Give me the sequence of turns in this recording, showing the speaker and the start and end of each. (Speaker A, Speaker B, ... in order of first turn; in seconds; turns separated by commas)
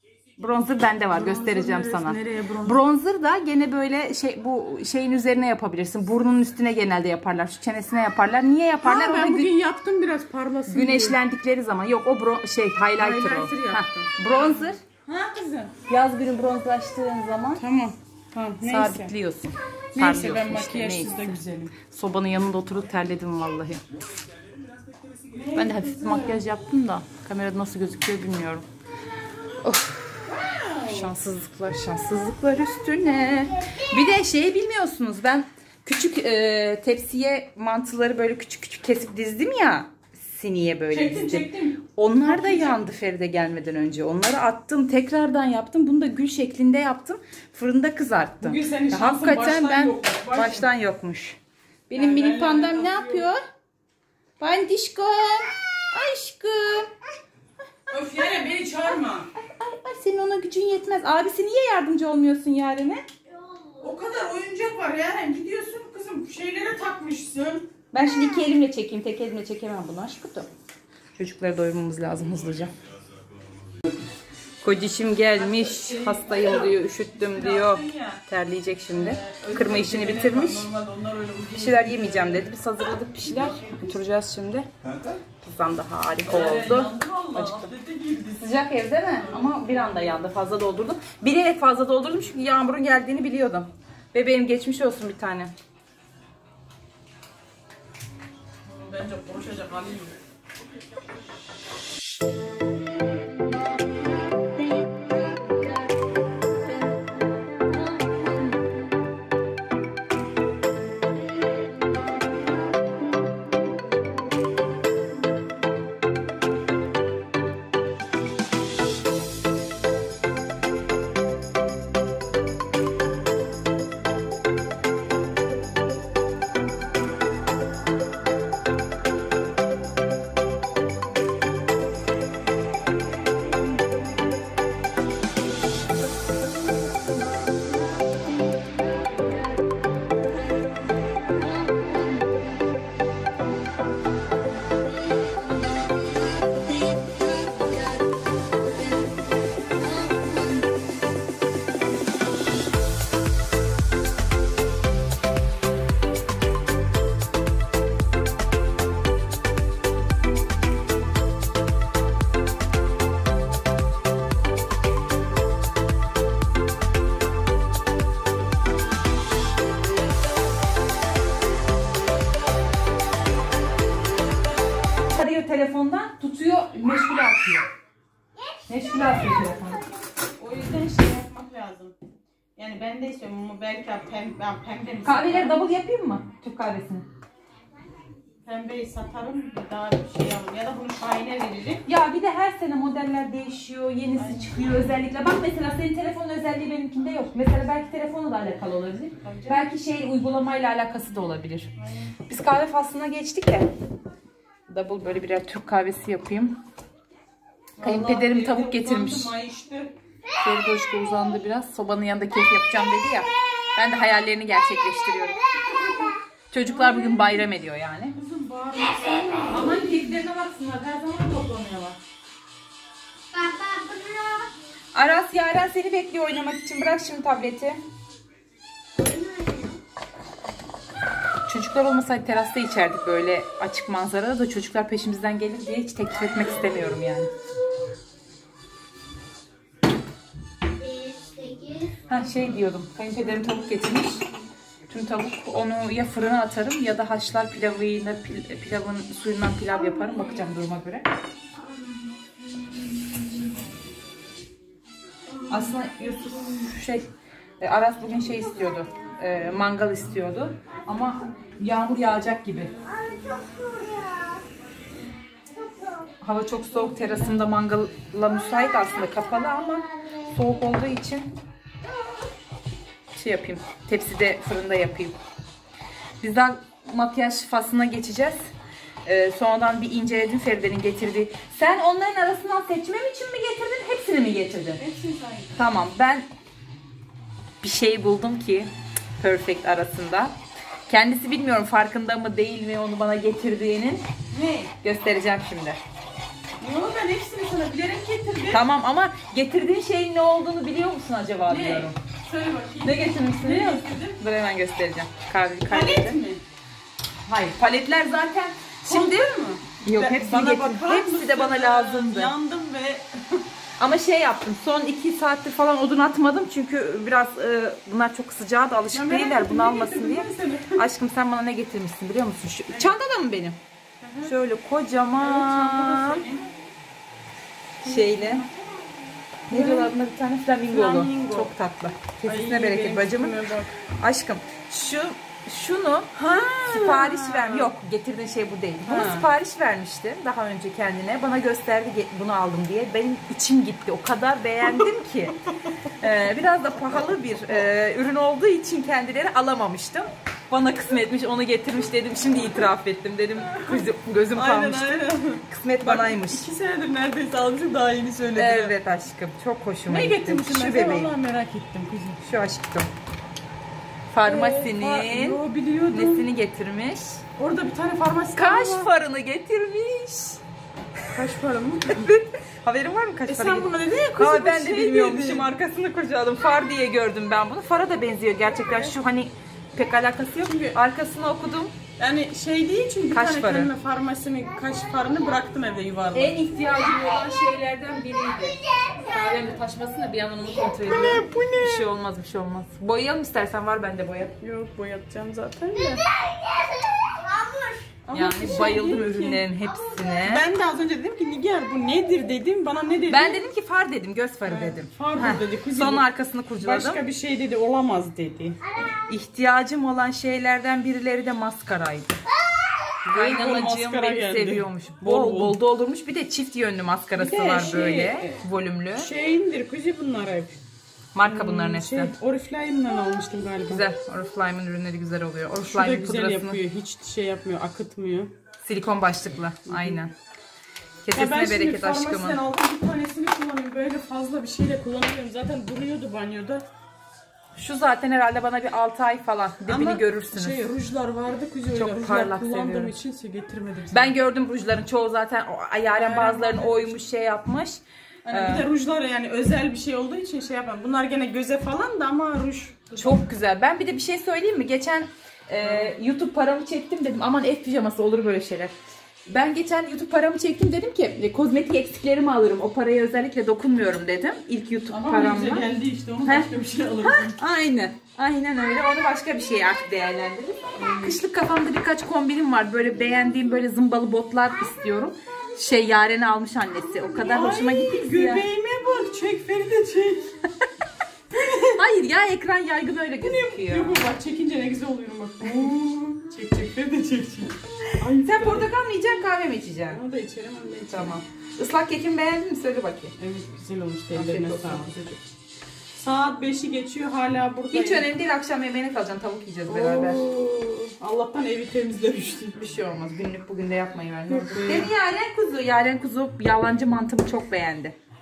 Speaker A: 0.4-9.5, Speaker B: 1.1-2.8, Speaker B: 8.8-11.2, Speaker A: 10.7-14.8, Speaker B: 13.0-15.7, Speaker A: 15.9-17.6, Speaker B: 17.6-19.1, Speaker A: 18.6-23.8, Speaker B: 19.9-21.8, Speaker B: 25.3-26.4, Speaker A: 25.5-28.7, Speaker A: 29.6-30.3, Speaker B: 30.4-31.1, Speaker A: 30.8-53.4, Speaker B: 40.9-42.8, Speaker B: 48.4-50.7, Speaker B: 51.9-53.3, Speaker A: 54.4-56.9, Speaker B: 57.9-59.3, Speaker A: 59.4-63.0, Speaker C: 63.5-63.8, Speaker B: 63.8-67.7, Speaker A: 67.9-70.5, Speaker A: 71.2-72.7, Speaker A: 74.6-80.7, Speaker B: 75.3-78.2, Speaker B: 78.9-82.5, Speaker A: 81.6-84.7, Speaker B: 83.2-83.9, Speaker A: 85.4-87.7, Speaker B: 86.2-88.5, Speaker A: 88.4-95.5, Speaker B: 89.2-90.2, Speaker B: 98.6-100.2, Speaker A: 175.1-177.7, Speaker A: 178.7-179.8, Speaker B: 180.4-181.9, Speaker B: 182.6-185.6, Speaker A: 185.0-187.1, Speaker B: 188.4-191.8, Speaker A: 191.8-201.7, Speaker B: 194.2-194.8, Speaker B: 199.2-199.7, Speaker B: 201.8-202.1, Speaker A: 202.3-203.7, Speaker A: 204.7-206.6, Speaker B: 207.8-209.9, Speaker A: 207.8-209.3, Speaker A: 210.4-215.4, Speaker C: 215.3-216.1, Speaker B: 215.5-217.5, Speaker A: 216.5-218.2, Speaker B: 218.1-219.8, Speaker C: 219.0-219.3, Speaker A: 219.4-222.0, Speaker C: 223.3-224.5, Speaker A: 224.9-227.8, Speaker C: 228.9-229.8, Speaker A: 231.5-237.3, Speaker C: 240.8-242.2, Speaker A: 242.1-244.2, Speaker A: 244.9-251.1, Speaker A: 255.5-262.7, Speaker C: 262.8-264.4, Speaker C: 265.6-266.1, Speaker A: 266.2-271.3, Speaker A: 273.1-275.2, Speaker A: 276.2-278.5, Speaker A: 279.0-284.8, Speaker B: 284.8-285.6, Speaker A: 285.6-286.3, Speaker A: 287.6-290.3, Speaker A: 290.9-294.0, Speaker B: 294.3-294.7, Speaker A: 294.8-295.8, Speaker B: 296.6-298.6, Speaker A: 298.5-301.9, Speaker B: 301.4-304.2, Speaker A: 302.8-306.2, Speaker B: 305.7-306.4, Speaker A: 307.2-312.3, Speaker B: 308.8-313.4, Speaker A: 313.8-323.6, Speaker B: 318.9-320.8, Speaker B: 322.7-322.9, Speaker B: 324.0-324.3, Speaker A: 324.2-326.2, Speaker B: 325.2-326.5, Speaker A: 327.8-328.4, Speaker B: 327.8-328.5, Speaker B: 329.5-329.9, Speaker A: 329.5-333.4, Speaker B: 330.7-331.5, Speaker B: 332.2-333.8, Speaker A: 333.9-345.4, Speaker B: 336.1-337.7, Speaker B: 338.8-339.3, Speaker A: 346.0-356.5, Speaker B: 353.5-358.8, Speaker A: 358.4-361.1, Speaker B: 359.9-362.2, Speaker A: 362.2-362.9, Speaker A: 364.1-365.4, Speaker B: 364.2-366.3, Speaker A: 365.9-367.2, Speaker B: 367.4-368.9, Speaker A: 368.4-370.4, Speaker B: 371.1-372.1, Speaker A: 371.9-381.7, Speaker B: 373.2-375.5, Speaker B: 378.6-378.9, Speaker B: 380.4-380.8, Speaker B: 382.0-386.4, Speaker A: 383.1-383.7, Speaker A: 386.1-394.3, Speaker C: 386.6-387.2, Speaker C: 388.4-389.5, Speaker B: 390.8-391.9, Speaker B: 394.4-396.1, Speaker C: 395.9-398.0, Speaker B: 398.0-399.4, Speaker A: 398.1-400.5, Speaker C: 399.6-400.3, Speaker B: 400.2-403.4, Speaker A: 403.1-407.0, Speaker B: 404.4-406.1, Speaker B: 406.6-408.6, Speaker C: 408.7-409.1, Speaker A: 408.9-412.2, Speaker B: 413.1-415.6, Speaker A: 413.1-419.1, Speaker B: 417.1-418.4, Speaker B: 418.9-420.6, Speaker A: 421.1-422.1, Speaker B: 421.2-423.9, Speaker A: 423.6-426.6, Speaker B: 425.5-428.3, Speaker A: 428.6-430.1, Speaker B: 429.7-430.0, Speaker A: 431.0-432.4, Speaker B: 431.1-436.6, Speaker A: 437.6-440.7, Speaker B: 439.6-444.1, Speaker A: 441.7-442.9, Speaker A: 443.9-448.7, Speaker B: 445.9-447.0, Speaker B: 448.2-453.2, Speaker A: 452.9-458.7, Speaker B: 455.6-455.9, Speaker A: 459.3-465.7, Speaker B: 464.9-467.4, Speaker A: 466.2-466.5, Speaker A: 467.0-478.5, Speaker B: 470.8-471.2, Speaker B: 477.2-480.4, Speaker B: 481.3-481.8, Speaker A: 481.5-484.0, Speaker B: 483.2-488.7, Speaker A: 488.1-490.0, Speaker B: 489.9-491.1, Speaker A: 490.9-493.1, Speaker B: 493.2-495.3, Speaker A: 494.1-495.0, Speaker B: 495.9-498.1, Speaker A: 497.7-500.3, Speaker B: 499.6-502.6, Speaker A: 502.6-507.9, Speaker B: 504.3-504.9